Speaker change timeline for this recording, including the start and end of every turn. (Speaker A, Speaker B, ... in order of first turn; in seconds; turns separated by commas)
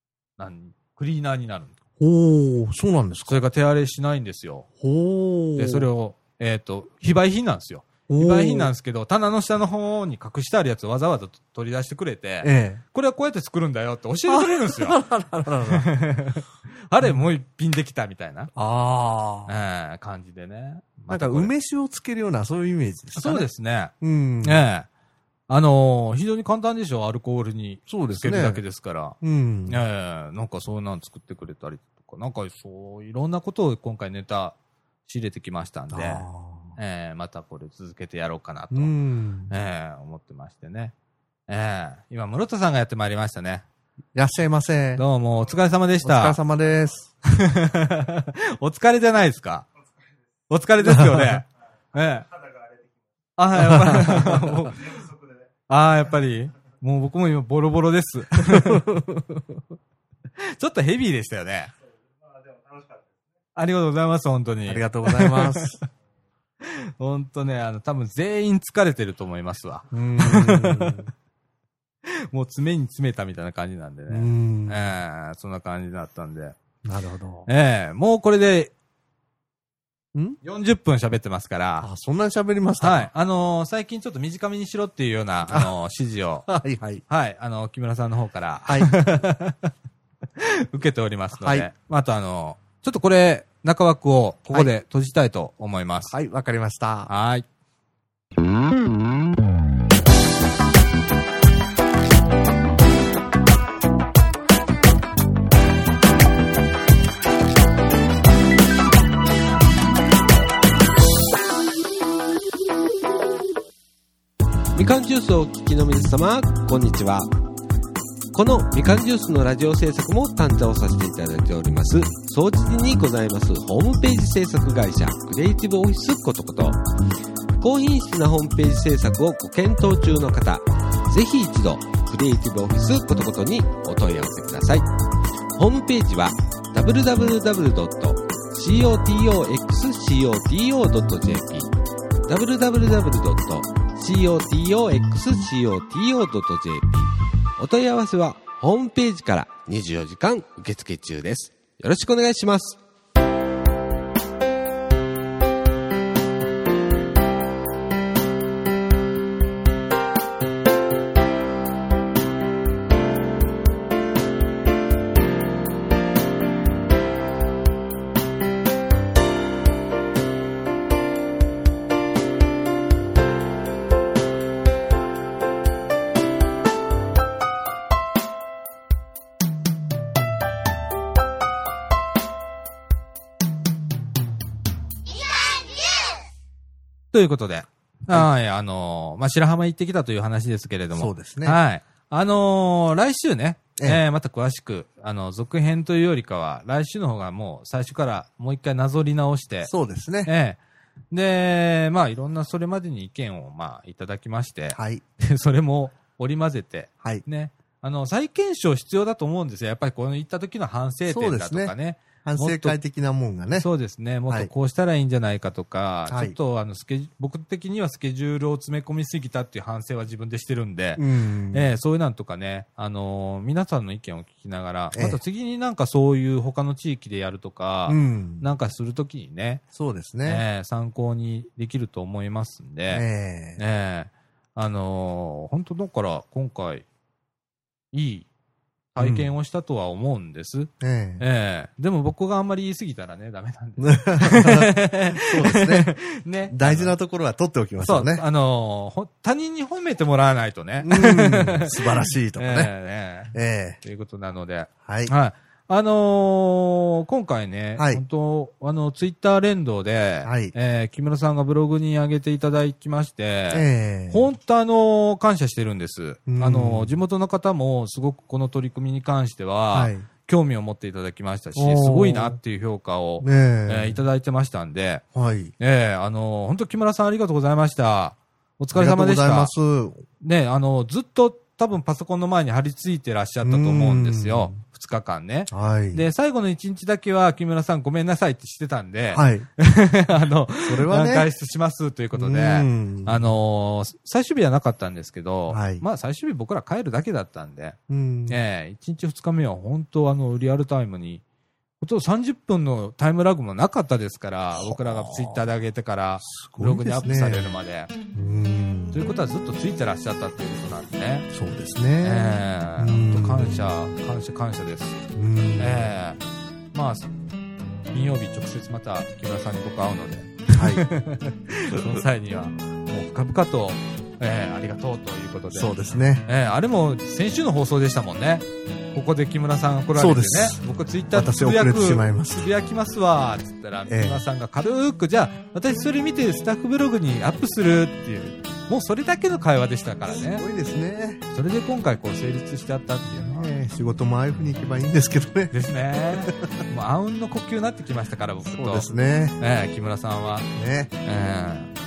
Speaker A: 0.4-1.7, Speaker B: 2.0-3.4, Speaker A: 3.2-4.7, Speaker B: 4.8-5.9, Speaker A: 5.5-15.0, Speaker B: 8.1-8.7, Speaker B: 12.4-12.8, Speaker B: 14.3-15.9, Speaker A: 15.6-18.5, Speaker B: 18.5-19.5, Speaker A: 19.5-21.5, Speaker B: 21.1-23.5, Speaker A: 23.1-24.9, Speaker B: 24.0-24.6, Speaker A: 25.5-38.9, Speaker B: 27.9-28.6, Speaker B: 29.2-29.8, Speaker B: 35.9-36.8, Speaker B: 38.7-39.5, Speaker A: 39.5-40.9, Speaker A: 41.5-43.6, Speaker B: 44.1-45.0, Speaker A: 45.0-46.4, Speaker B: 46.0-47.1, Speaker A: 47.2-49.7, Speaker A: 50.5-52.3, Speaker A: 53.4-55.1, Speaker B: 53.6-54.6, Speaker A: 55.7-58.9, Speaker B: 58.5-59.6, Speaker A: 60.4-61.7, Speaker A: 63.5-65.8, Speaker B: 64.7-65.8, Speaker A: 66.6-71.1, Speaker B: 69.9-71.1, Speaker A: 72.3-76.5, Speaker B: 74.1-74.8, Speaker B: 76.8-77.5, Speaker A: 77.5-78.7, Speaker A: 80.4-81.9, Speaker B: 81.8-83.1, Speaker A: 82.8-86.5, Speaker B: 86.5-87.0, Speaker A: 87.1-89.7, Speaker B: 88.7-89.1, Speaker A: 90.4-96.1, Speaker B: 91.3-91.7, Speaker B: 96.1-97.1, Speaker A: 97.1-97.4, Speaker C: 114.7-117.3, Speaker C: 118.3-126.8, Speaker C: 127.6-134.9, Speaker C: 135.6-141.7, Speaker C: 142.3-152.8, Speaker A: 187.1-199.7, Speaker B: 191.0-191.6, Speaker B: 199.6-200.3, Speaker A: 200.2-200.6, Speaker A: 201.1-212.8, Speaker B: 204.7-205.0, Speaker B: 211.1-213.7, Speaker A: 213.6-229.6, Speaker B: 216.1-216.3, Speaker B: 221.0-221.7, Speaker B: 224.9-225.2, Speaker B: 227.9-228.4, Speaker B: 229.7-230.4, Speaker A: 230.2-233.0, Speaker B: 232.9-233.6, Speaker A: 233.6-236.8, Speaker A: 237.9-238.3, Speaker A: 238.9-246.9, Speaker B: 239.0-239.3, Speaker B: 240.8-241.2, Speaker B: 243.8-245.9, Speaker B: 246.5-248.2, Speaker A: 247.8-275.0, Speaker B: 250.8-252.7, Speaker B: 253.3-253.8, Speaker B: 254.8-255.1, Speaker B: 257.8-258.0, Speaker B: 260.2-260.5, Speaker B: 263.5-264.3, Speaker B: 266.3-266.9, Speaker B: 269.7-270.0, Speaker B: 271.5-272.4, Speaker B: 273.2-274.0, Speaker B: 275.1-275.5, Speaker A: 275.6-279.5, Speaker B: 278.7-280.0, Speaker A: 280.2-301.2, Speaker B: 283.4-284.6, Speaker B: 285.5-286.0, Speaker B: 289.1-289.5, Speaker B: 290.6-291.3, Speaker B: 292.1-293.3, Speaker B: 295.5-295.8, Speaker B: 297.9-298.4, Speaker A: 301.8-307.9, Speaker B: 304.6-305.4, Speaker B: 306.2-307.5, Speaker B: 308.1-309.0, Speaker A: 308.9-311.3, Speaker B: 311.3-313.7, Speaker A: 312.0-315.0, Speaker B: 315.1-315.9, Speaker A: 315.6-316.2, Speaker A: 316.7-317.1, Speaker A: 317.9-325.7, Speaker B: 320.5-320.8, Speaker B: 325.5-326.2, Speaker A: 326.2-340.4, Speaker B: 329.9-332.5, Speaker B: 333.9-334.2, Speaker B: 340.3-341.2, Speaker A: 341.3-343.5, Speaker B: 343.3-345.5, Speaker A: 345.5-348.9, Speaker B: 348.5-349.4, Speaker A: 349.4-350.5, Speaker B: 350.5-350.9, Speaker A: 351.0-351.7